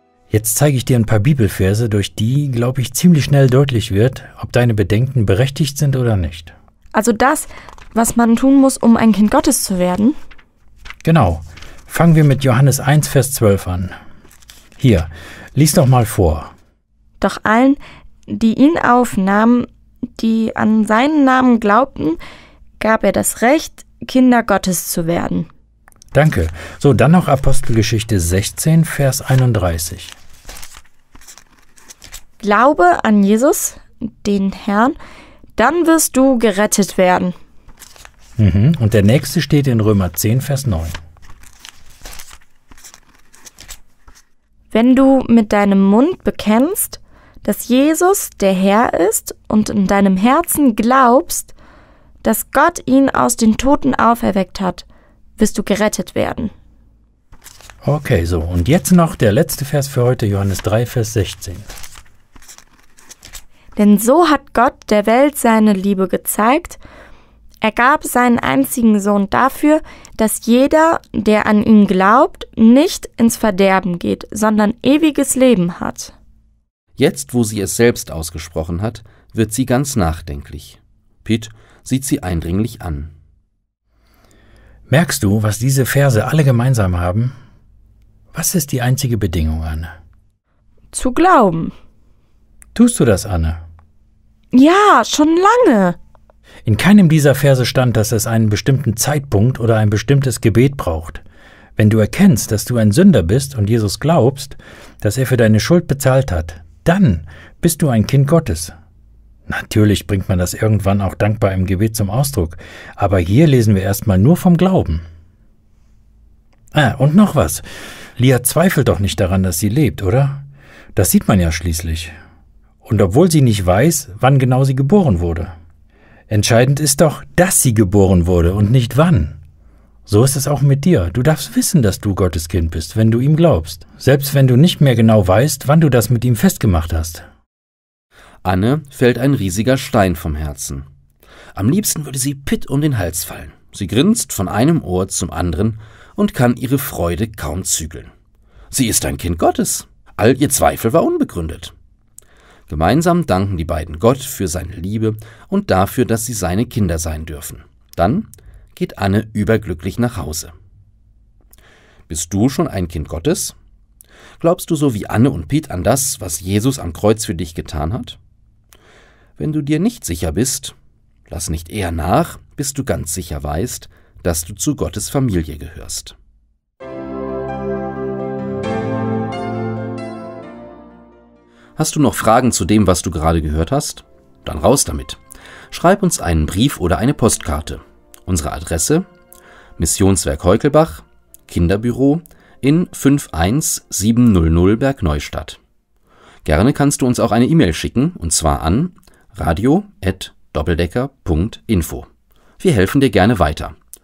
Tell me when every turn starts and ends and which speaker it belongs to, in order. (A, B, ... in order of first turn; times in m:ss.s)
0:00.3-0:06.5 A
0:06.9-0:10.2 B
0:11.0-0:13.9 A
0:14.8-0:16.5 A
0:17.2-0:22.2 B
0:22.8-0:25.5 B
0:26.1-0:30.1 A
0:32.4-0:35.0 B
0:35.6-0:37.4 B
0:38.4-0:41.0 A
0:44.7-0:51.5 B
0:52.2-0:54.8 B
0:55.4-0:56.5 B
0:57.8-1:01.6 A
1:03.8-1:06.8 B
1:07.6-1:16.1 B
1:17.0-1:23.1 C
1:24.9-1:27.3 A
1:28.3-1:29.9 A
1:30.9-1:31.7 B
1:32.7-1:33.6 A
1:34.5-1:36.0 B
1:36.6-1:41.2 A
1:41.8-1:48.7 A
1:49.5-1:55.0 A
1:56.7-1:57.6 A
1:58.2-2:00.4 A
2:00.9-2:02.1 A
2:02.8-2:05.5 A
2:06.3-2:09.4 A
2:10.1-2:17.2 A
2:18.4-2:20.8 C
2:21.5-2:28.1 C
2:28.7-2:31.7 C
2:32.7-2:40.5 C
2:42.1-2:43.5 C
2:44.4-2:48.2 C
2:49.4-2:50.7 C
2:51.3-2:56.2 C
3:01.8-3:05.2 C
3:05.7-3:09.0 C
3:09.8-3:15.6 C
3:16.4-3:22.1 C
3:22.6-3:23.8 C